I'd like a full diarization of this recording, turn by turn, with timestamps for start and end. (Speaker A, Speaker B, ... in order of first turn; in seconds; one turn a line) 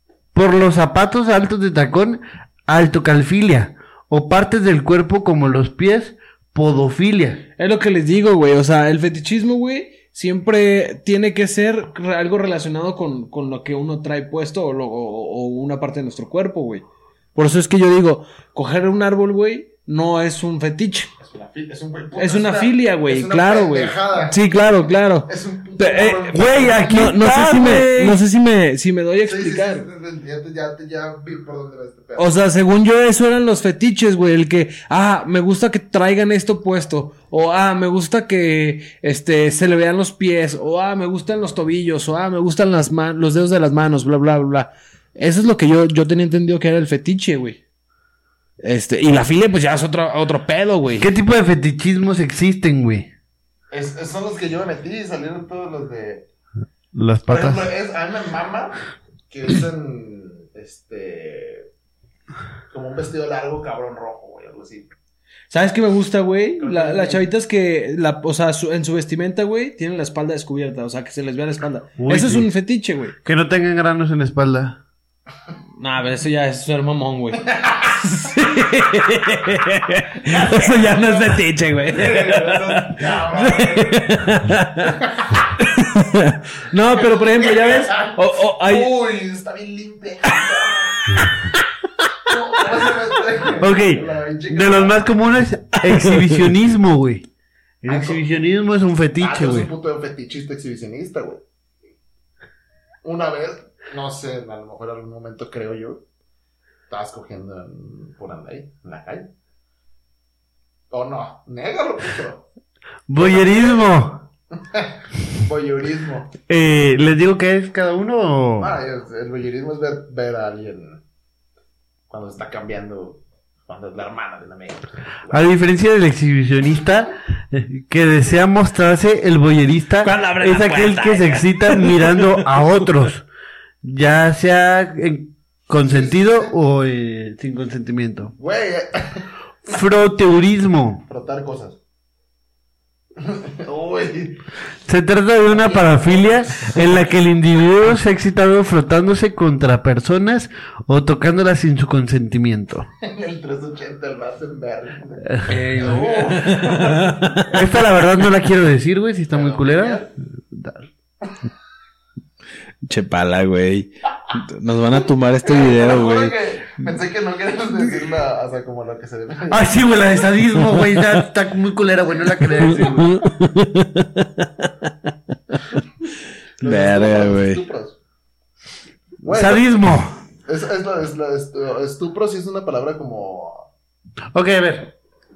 Speaker A: 0.3-7.5
Speaker B: 7.6-21.1
Speaker C: 21.2-24.4
Speaker B: 22.2-29.9
Speaker C: 25.3-27.0
Speaker A: 26.3-28.2
Speaker C: 29.2-32.4
Speaker B: 32.2-47.6
Speaker B: 48.6-51.1
Speaker A: 51.0-53.1
Speaker C: 53.7-56.3
Speaker A: 56.9-57.7
Speaker C: 57.3-58.8
Speaker C: 59.3-61.7
Speaker C: 62.7-64.9
Speaker B: 65.5-73.2
Speaker C: 66.6-67.3
Speaker A: 72.0-72.5
Speaker A: 73.2-74.8
Speaker B: 75.8-85.0
Speaker C: 77.5-78.0
Speaker C: 80.3-85.5
Speaker B: 85.6-88.9
Speaker C: 86.7-91.2
Speaker C: 92.3-95.2
Speaker A: 93.6-97.3
Speaker B: 95.9-96.3
Speaker A: 97.8-99.7
Speaker C: 97.9-98.2
Speaker C: 99.2-101.4
Speaker C: 103.0-106.0
Speaker C: 106.9-109.3
Speaker C: 110.9-112.5
Speaker A: 113.1-114.2
Speaker C: 113.2-116.4
Speaker A: 116.5-118.7
Speaker C: 118.6-121.0
Speaker C: 122.1-125.4
Speaker A: 125.3-133.3
Speaker B: 130.0-132.9
Speaker A: 133.8-138.3
Speaker C: 135.8-136.5
Speaker C: 138.4-139.3
Speaker A: 139.7-141.0
Speaker C: 141.1-141.8
Speaker C: 143.2-144.4
Speaker A: 144.9-152.9
Speaker C: 145.5-146.9
Speaker C: 153.0-157.6
Speaker A: 155.3-155.5
Speaker B: 155.5-157.6
Speaker A: 157.5-160.9
Speaker C: 159.3-160.1
Speaker B: 162.8-166.3
Speaker C: 165.4-170.0
Speaker A: 169.5-173.1
Speaker B: 172.6-174.9
Speaker B: 176.6-177.6
Speaker C: 176.6-178.0
Speaker C: 179.2-183.7
Speaker A: 179.3-180.2
Speaker A: 184.3-184.9